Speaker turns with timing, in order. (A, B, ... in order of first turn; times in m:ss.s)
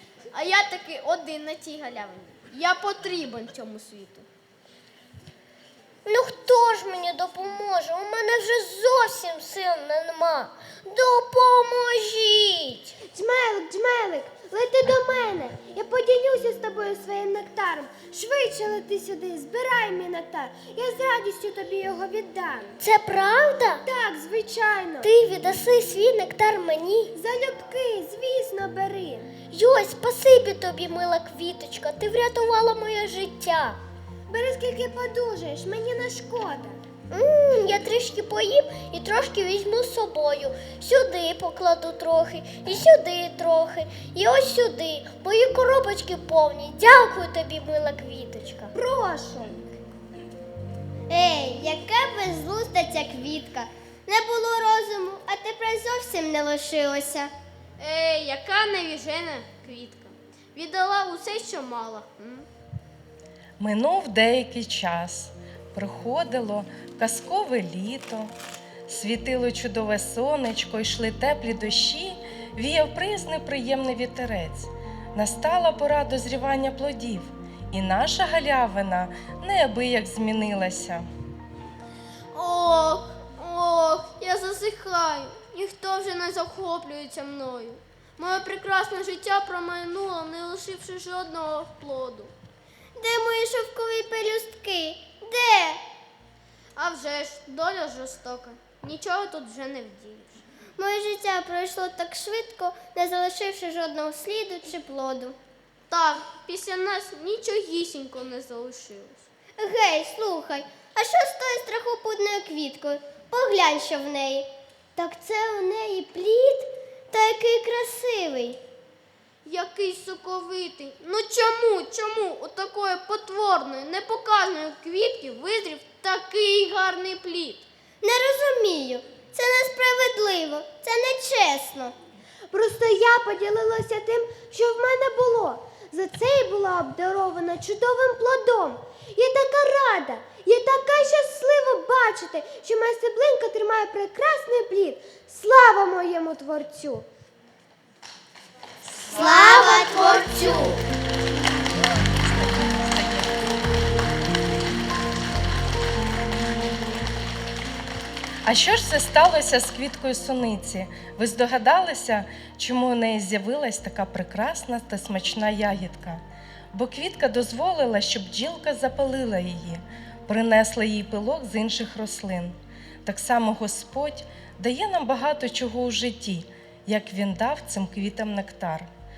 0:00.3-0:04.3 A
0:06.0-0:12.9 B
0:13.1-0:22.8 C
0:22.8-0:23.8 B
0:23.8-0:25.1 C
0:25.0-0:27.1 B
0:27.1-0:29.3 C
0:29.5-0:33.8 B
0:34.3-0:36.8 C
0:37.1-0:48.7 B
0:48.7-0:49.6 C
0:51.1-0:57.3 D
0:57.8-1:02.5 A
1:03.6-1:08.3 E
1:08.9-1:21.0 E
1:22.3-1:32.3 A
1:33.0-1:35.8 D
1:36.8-1:40.4 A
1:40.8-1:45.4 D
1:45.9-1:49.2 A
1:49.6-1:58.6 D
1:59.4-2:07.6 A
2:08.0-2:11.9 D
2:12.5-2:27.0 C
2:28.9-2:30.8 D
2:32.2-2:33.5 E
2:38.4-2:58.9 E